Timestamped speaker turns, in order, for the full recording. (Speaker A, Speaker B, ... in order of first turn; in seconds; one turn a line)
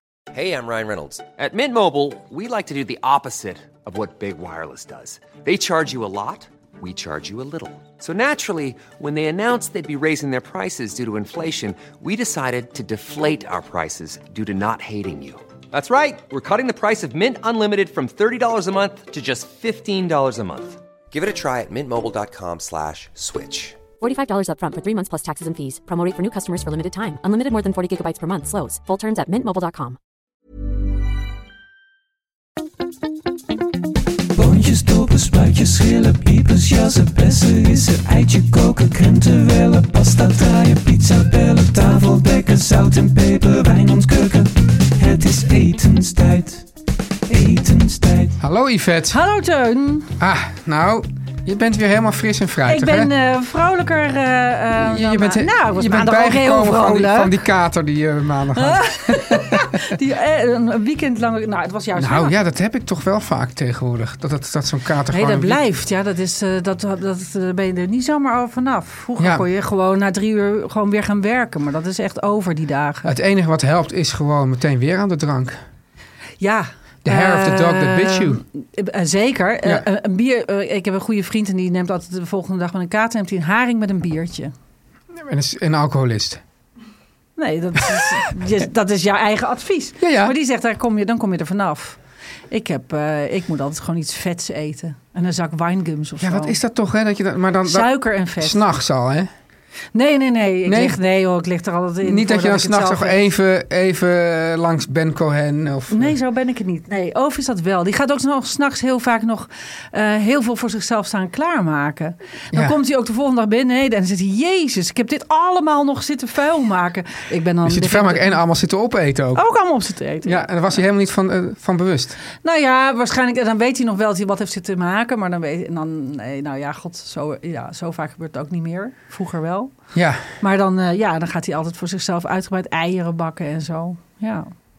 Speaker A: 0.3-23.8
Speaker B: 24.0-30.0
Speaker C: 34.4-46.6
Speaker C: 47.3-48.4
Speaker D: 48.4-49.2
Speaker E: 49.1-50.1
Speaker D: 50.2-53.1
Speaker E: 52.6-57.3
Speaker D: 54.8-59.9
Speaker E: 58.5-62.3
Speaker D: 62.0-65.6
Speaker E: 65.1-73.1
Speaker D: 69.2-69.4
Speaker D: 73.0-75.6
Speaker E: 76.4-84.5
Speaker D: 77.0-78.4
Speaker D: 85.2-86.4
Speaker E: 87.4-92.0
Speaker D: 90.0-90.3
Speaker E: 92.5-96.6
Speaker D: 96.2-99.3
Speaker E: 97.7-98.7
Speaker E: 99.9-103.2
Speaker D: 100.7-101.0
Speaker D: 102.0-106.2
Speaker E: 105.9-118.4
Speaker D: 117.6-119.4
Speaker E: 119.3-120.8
Speaker D: 120.2-122.2
Speaker E: 122.4-129.7
Speaker D: 129.9-130.2
Speaker E: 130.4-134.5